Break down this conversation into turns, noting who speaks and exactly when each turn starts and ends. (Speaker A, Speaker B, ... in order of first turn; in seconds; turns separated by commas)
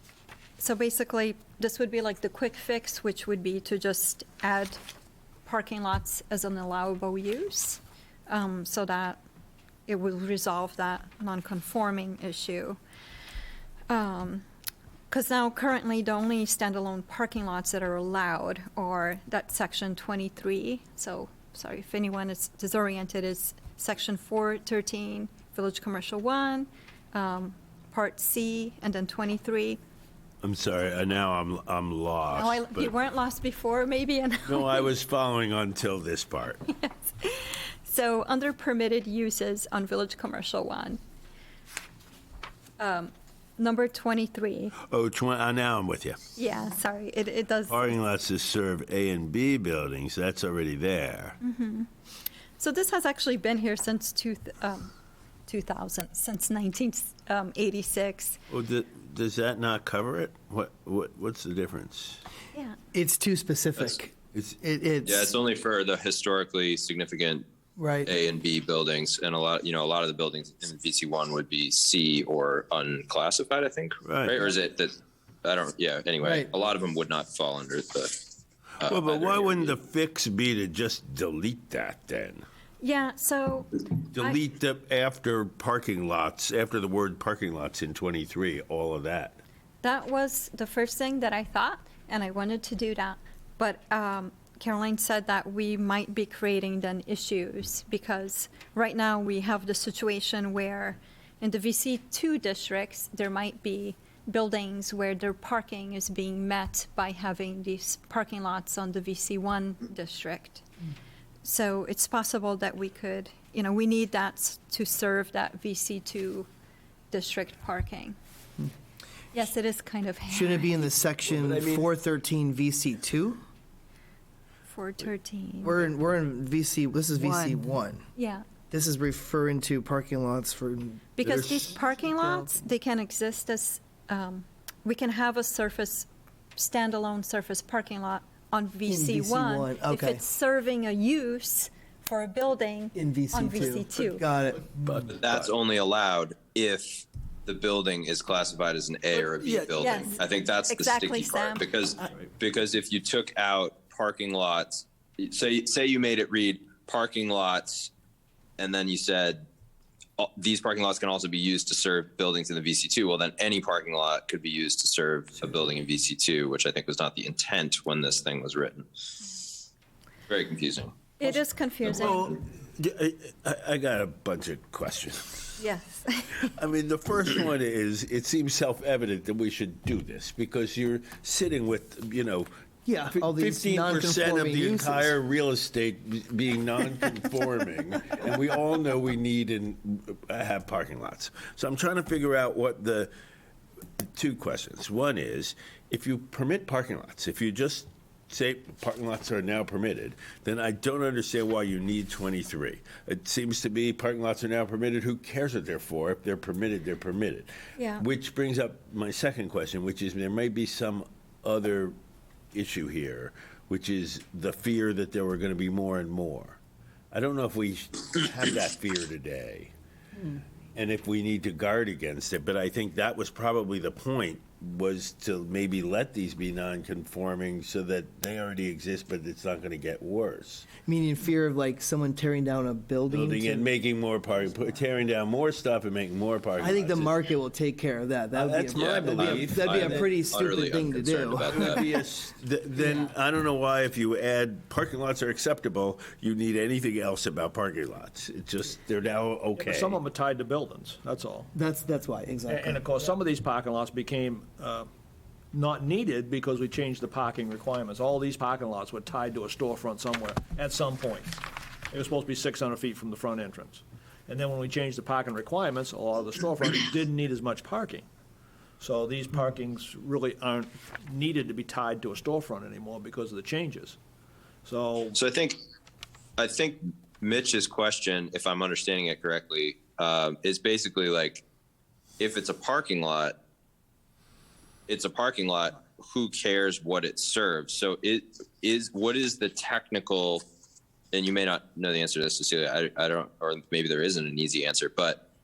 Speaker A: 0.6-4.8, Speaker A: 5.5-9.2, Speaker A: 9.9-12.8, Speaker A: 13.9-14.4, Speaker A: 15.1-29.8, Speaker B: 30.4-32.9, Speaker A: 32.3-34.9, Speaker B: 34.5-36.6, Speaker A: 36.7-41.0, Speaker A: 42.8-44.7, Speaker B: 44.8-46.2, Speaker A: 46.4-47.9, Speaker B: 47.7-51.4, Speaker A: 51.4-51.9, Speaker A: 52.6-54.9, Speaker A: 55.5-58.4, Speaker B: 58.5-62.2, Speaker C: 62.9-65.3, Speaker B: 64.3-64.6, Speaker D: 65.0-67.4, Speaker C: 67.8-68.1, Speaker D: 68.0-78.1, Speaker B: 74.0-74.5, Speaker C: 76.2-76.5, Speaker D: 78.8-79.7, Speaker B: 78.8-82.4, Speaker A: 82.8-84.4, Speaker B: 84.1-89.4, Speaker A: 89.8-110.6, Speaker A: 111.4-116.5, Speaker A: 117.1-118.1, Speaker A: 119.3-120.9, Speaker C: 120.3-123.4, Speaker B: 121.3-121.9, Speaker A: 124.7-125.8, Speaker C: 125.6-128.0, Speaker A: 128.2-128.4, Speaker C: 128.7-131.1, Speaker A: 131.2-144.2, Speaker B: 131.2-131.7, Speaker C: 138.9-140.2, Speaker C: 143.0-144.6, Speaker B: 144.7-145.5, Speaker D: 145.2-157.9, Speaker C: 149.4-149.8, Speaker A: 149.8-151.7, Speaker D: 158.6-159.4, Speaker D: 160.2-168.8, Speaker D: 170.3-170.9, Speaker A: 171.2-172.4, Speaker B: 171.2-175.6, Speaker A: 175.6-176.5, Speaker B: 176.5-182.5, Speaker C: 182.8-185.1, Speaker B: 183.1-193.1, Speaker B: 194.0-211.9, Speaker A: 207.8-208.0, Speaker B: 212.5-216.6, Speaker B: 217.1-219.7, Speaker B: 220.7-230.7, Speaker C: 230.8-233.7, Speaker B: 233.1-237.2, Speaker C: 236.6-241.8, Speaker B: 238.3-240.1, Speaker D: 238.7-241.8, Speaker B: 241.4-250.0, Speaker E: 249.6-251.5, Speaker C: 251.5-252.8, Speaker E: 252.5-254.9, Speaker E: 255.5-261.4, Speaker E: 261.9-268.1, Speaker E: 268.8-274.0, Speaker E: 274.6-275.2, Speaker D: 275.1-275.6, Speaker D: 276.4-281.4, Speaker D: 282.2-283.4, Speaker D: 284.9-290.4, Speaker D: 291.1-295.2